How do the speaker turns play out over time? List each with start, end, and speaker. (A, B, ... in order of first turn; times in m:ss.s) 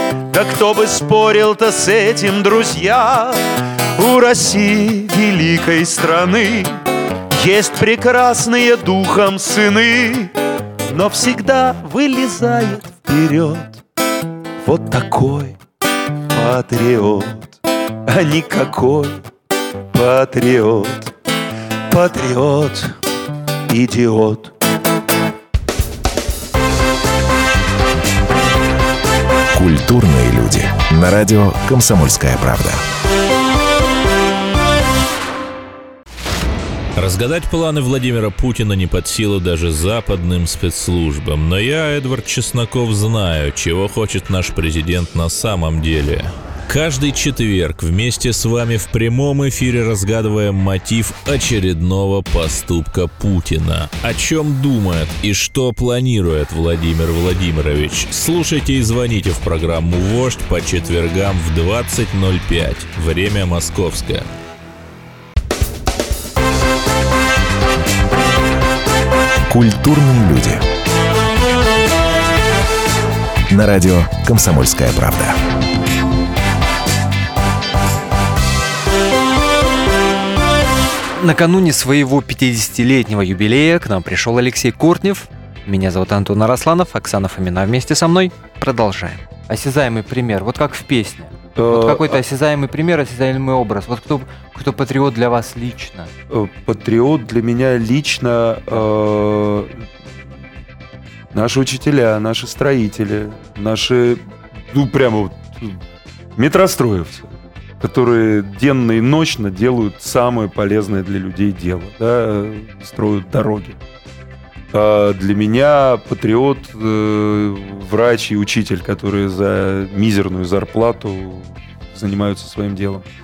0:00.3-0:06.8 A
0:07.3-0:10.4 A
0:10.9-0:13.8 A
0:14.6-0:15.6 A
0:16.3-0:19.2 A
0:19.9-0:21.1 A
0:21.9-0:23.0 A
0:23.7-0:24.6 A
0:29.5-0:32.8 B
0:37.0-1:04.3 C
1:09.5-1:10.6 B
1:13.5-1:15.4 B
1:21.2-1:36.1 D
1:31.6-1:32.2 A
1:36.3-1:39.9 A
1:41.3-1:45.8 A
1:46.4-1:53.8 A
1:54.7-2:03.1 A